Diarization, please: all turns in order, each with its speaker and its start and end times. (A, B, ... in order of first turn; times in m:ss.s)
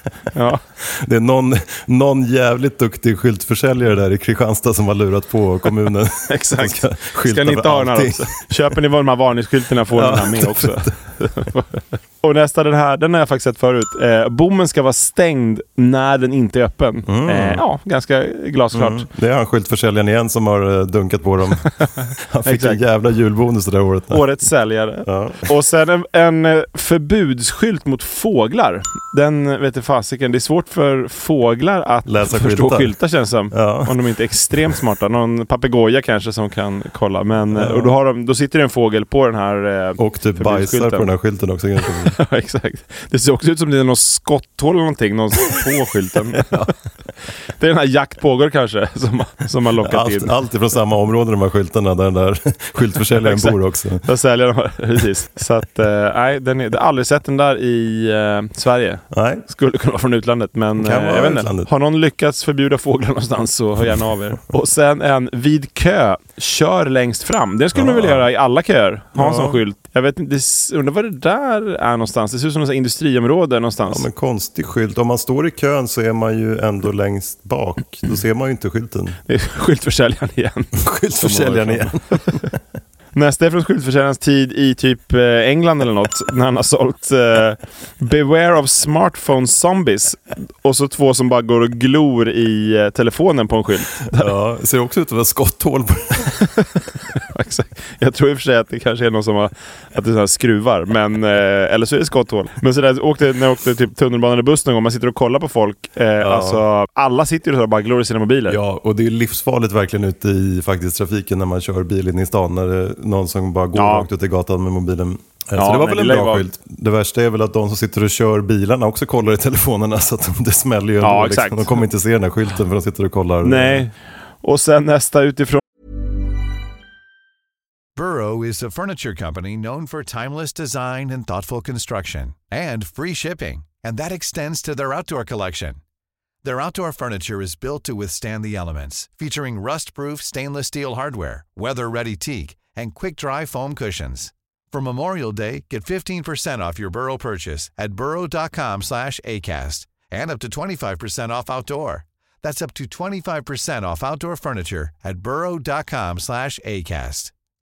0:00.3-0:00.6 A
0:00.8-0:08.4 B
0:06.3-0:19.1 A
0:09.9-0:11.0 B
0:17.1-0:17.6 B
0:18.7-0:24.2 B
0:21.8-0:22.8 A
0:24.1-0:41.1 A
0:25.0-0:25.4 B
0:32.0-0:33.0 B
0:33.5-0:33.9 B
0:37.5-0:37.9 B
0:40.0-0:42.2 B
0:41.9-0:46.6 A
0:46.4-0:46.7 B
0:47.5-0:50.4 A
0:49.8-0:54.0 B
0:53.2-1:14.0 A
0:59.1-0:59.4 B
1:00.8-1:01.7 B
1:07.7-1:08.3 B
1:09.2-1:09.6 B
1:13.9-1:19.2 B
1:19.3-1:22.4 A
1:20.8-1:22.6 B
1:23.1-1:34.3 A
1:34.1-1:36.4 B
1:37.3-1:48.6 A
1:46.2-1:46.6 B
1:48.5-2:03.9 B
1:53.8-1:54.1 A
1:55.6-1:56.4 A
2:01.0-2:01.8 A
2:03.4-2:05.6 A
2:08.0-2:15.8 C
2:16.4-2:37.3 C